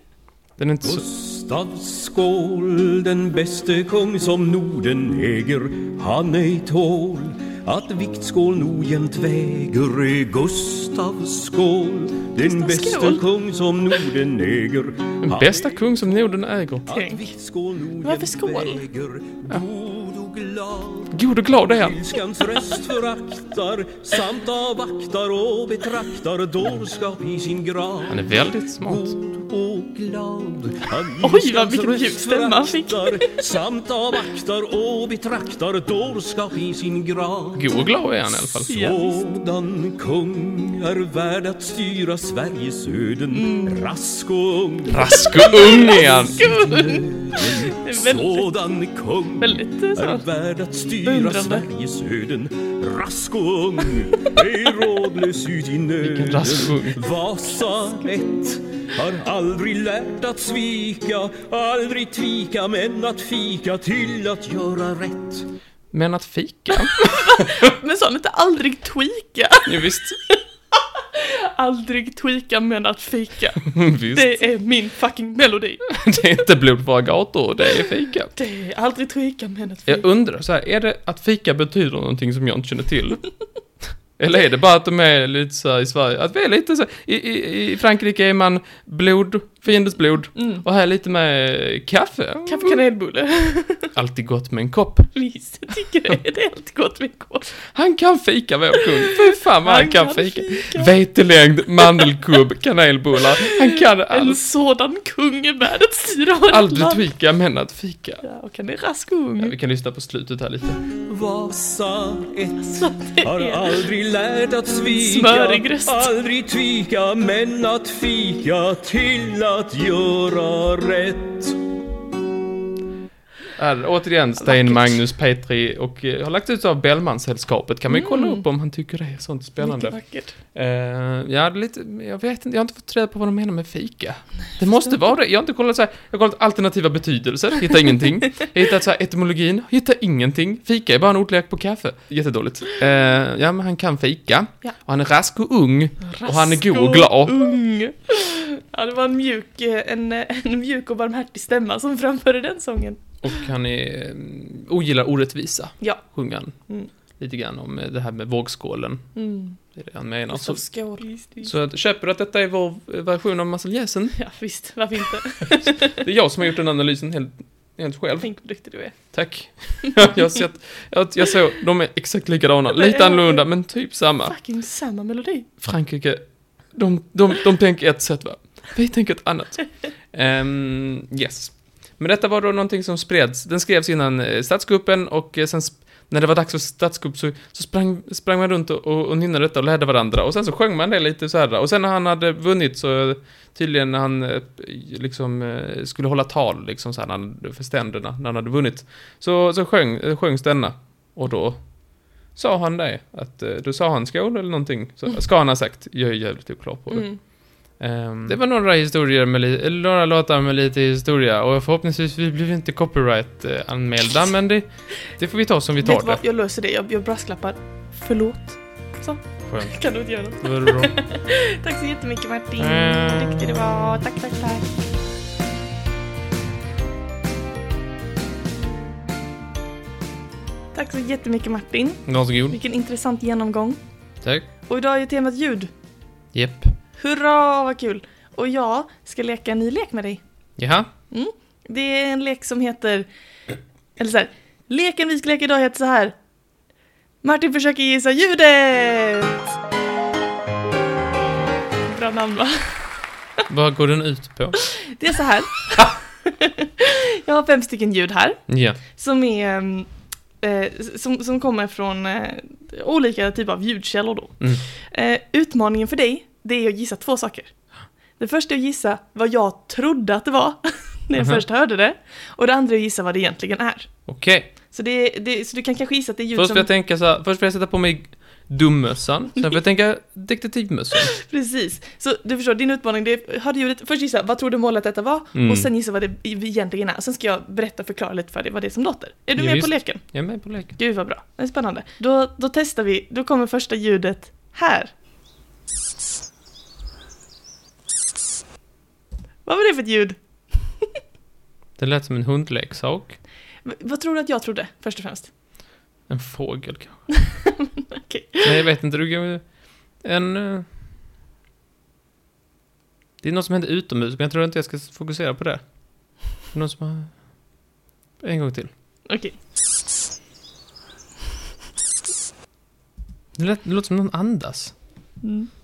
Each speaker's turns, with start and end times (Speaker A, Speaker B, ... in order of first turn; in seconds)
Speaker A: 0.6-1.0, 15.2-16.9, 21.1-22.0, 28.1-29.1, 37.5-38.7, 44.9-46.4, 56.0-57.0, 65.9-67.7, 69.7-70.2, 73.6-74.5, 75.9-78.3, 79.9-83.2, 84.2-92.8, 93.9-95.1, 97.7-104.4, 106.5-108.2, 109.4-110.8, 123.6-147.4, 153.2-156.5, 157.2-159.1, 159.7-160.6, 161.4-164.2, 165.4-168.3, 168.9-174.3, 175.6-201.6, 202.3-207.1, 207.8-216.2, 219.4-220.9, 222.6-223.6, 232.1-232.6, 236.3-236.7, 240.6-240.9, 253.5-254.6, 258.5-258.8, 271.2-271.4, 274.1-274.5, 276.4-281.1, 285.3-285.7, 289.4-290.7, 301.8-303.2, 306.1-307.1, 308.4-309.5, 310.0-310.7, 313.2-315.6, 316.5-317.2, 318.2-318.7, 323.4-324.7
Speaker B: 0.8-15.9, 16.9-37.7, 38.7-65.5, 111.0-121.6
Speaker C: 12.4-13.2, 16.9-17.2, 18.0-18.8, 31.2-33.4, 38.7-39.2, 43.3-43.8, 45.4-48.5, 49.4-50.2, 51.0-51.6, 66.8-75.9, 78.3-80.0, 90.4-90.6, 92.5-93.9, 95.1-97.5, 98.8-100.9, 103.4-107.0, 108.2-109.5, 112.6-113.8, 114.9-116.1, 124.4-124.9, 127.9-128.4, 129.6-130.3, 146.0-153.0, 159.1-159.6, 160.3-161.5, 164.2-166.0, 168.2-169.0, 169.8-170.2, 172.7-173.4, 174.2-175.5, 206.9-207.2, 215.8-224.7, 230.7-233.8, 234.7-235.7, 237.0-240.2, 241.1-243.1, 244.0-246.2, 247.2-249.5, 251.9-252.8, 254.6-259.9, 260.4-267.5, 268.2-273.9, 274.7-276.7, 281.0-294.9, 299.4-300.9, 303.6-305.3, 307.2-308.6, 319.1-319.4, 325.2-325.5